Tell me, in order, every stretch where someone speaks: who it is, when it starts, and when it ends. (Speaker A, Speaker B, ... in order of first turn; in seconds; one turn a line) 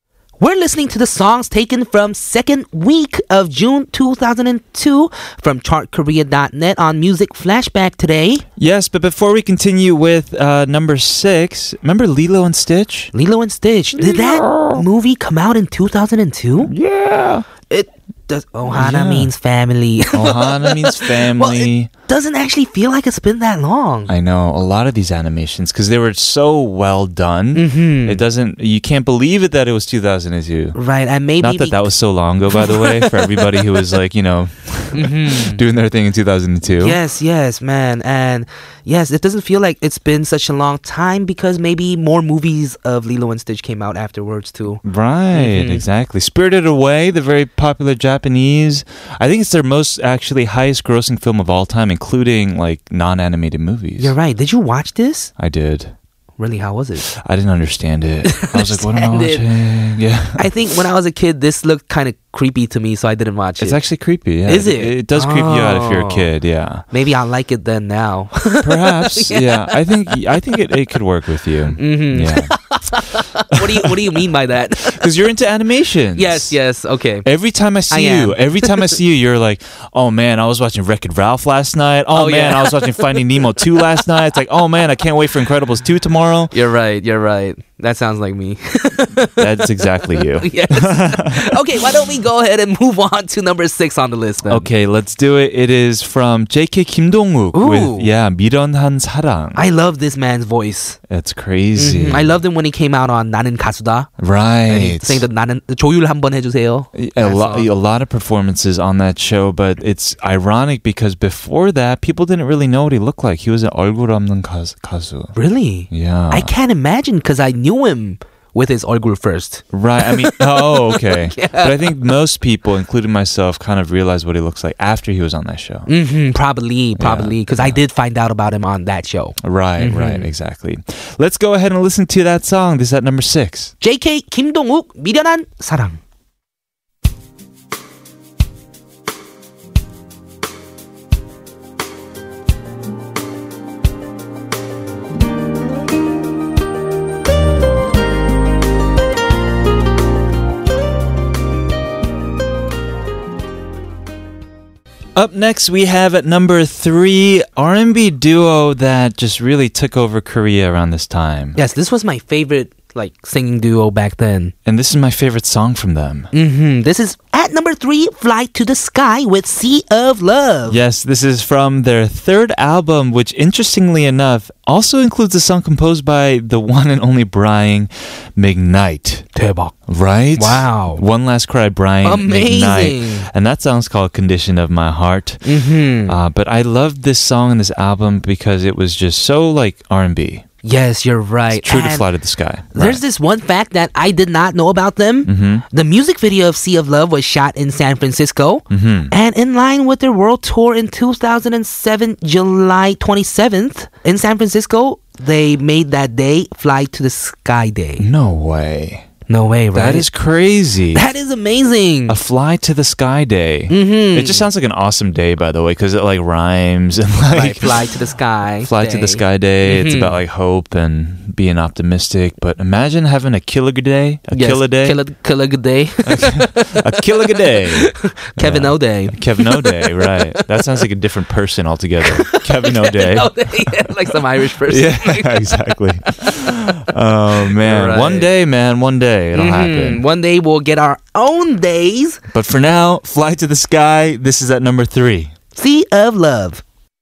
Speaker A: 0.4-8.4
Speaker B: 8.6-13.1
Speaker A: 13.1-16.7
Speaker B: 13.9-14.8
Speaker B: 16.6-17.4
Speaker A: 17.7-24.1
Speaker B: 18.7-19.3
Speaker B: 20.1-21.9
Speaker B: 24.1-30.8
Speaker A: 27.5-28.2
Speaker A: 30.7-31.9
Speaker B: 31.4-37.0
Speaker A: 32.6-33.8
Speaker A: 34.9-35.6
Speaker A: 36.8-44.8
Speaker B: 44.8-54.1
Speaker A: 45.3-45.8
Speaker A: 54.0-55.3
Speaker B: 55.4-55.9
Speaker A: 56.4-57.1
Speaker B: 57.1-60.5
Speaker A: 58.2-59.4
Speaker A: 60.4-63.8
Speaker B: 63.6-66.8
Speaker A: 64.5-66.3
Speaker A: 66.9-69.8
Speaker B: 68.6-72.5
Speaker A: 71.8-75.0
Speaker B: 73.5-74.1
Speaker B: 74.8-76.5
Speaker A: 76.2-77.3
Speaker B: 77.2-86.5
Speaker A: 77.9-78.9
Speaker A: 82.1-83.2
Speaker A: 86.5-94.7
Speaker B: 89.4-91.5
Speaker B: 94.5-99.6
Speaker A: 97.5-98.1
Speaker A: 99.5-101.0
Speaker B: 101.1-102.4
Speaker A: 101.8-104.1
Speaker B: 104.2-105.2
Speaker A: 104.7-107.7
Speaker B: 106.9-115.3
Speaker A: 115.3-121.9
Speaker B: 115.9-116.5
Speaker B: 119.7-125.9
Speaker A: 125.9-130.3
Speaker B: 127.0-127.8
Speaker B: 129.4-133.7
Speaker A: 133.8-136.0
Speaker B: 155.1-161.6
Speaker A: 161.5-164.5
Speaker B: 164.6-166.3
Speaker A: 166.3-170.8
Speaker B: 170.7-179.2
Speaker A: 179.3-179.7
Speaker B: 179.9-185.5
Speaker A: 180.3-181.0
Speaker A: 182.0-183.3
Speaker A: 185.4-186.2
Speaker B: 186.1-190.4
Speaker A: 190.6-192.1
Speaker B: 191.5-193.0
Speaker A: 192.7-208.1
Speaker B: 195.2-195.7
Speaker B: 198.7-199.1
Speaker B: 208.0-209.1
Speaker A: 209.3-210.1
Speaker B: 209.7-211.1
Speaker A: 210.9-212.2
Speaker B: 212.1-217.8
Speaker A: 213.7-214.4
Speaker A: 217.3-220.2
Speaker B: 218.6-225.0
Speaker A: 224.3-230.4
Speaker B: 226.0-240.0
Speaker A: 232.0-236.3
Speaker A: 237.5-238.3
Speaker A: 239.3-242.2
Speaker B: 242.3-245.3
Speaker A: 245.5-246.6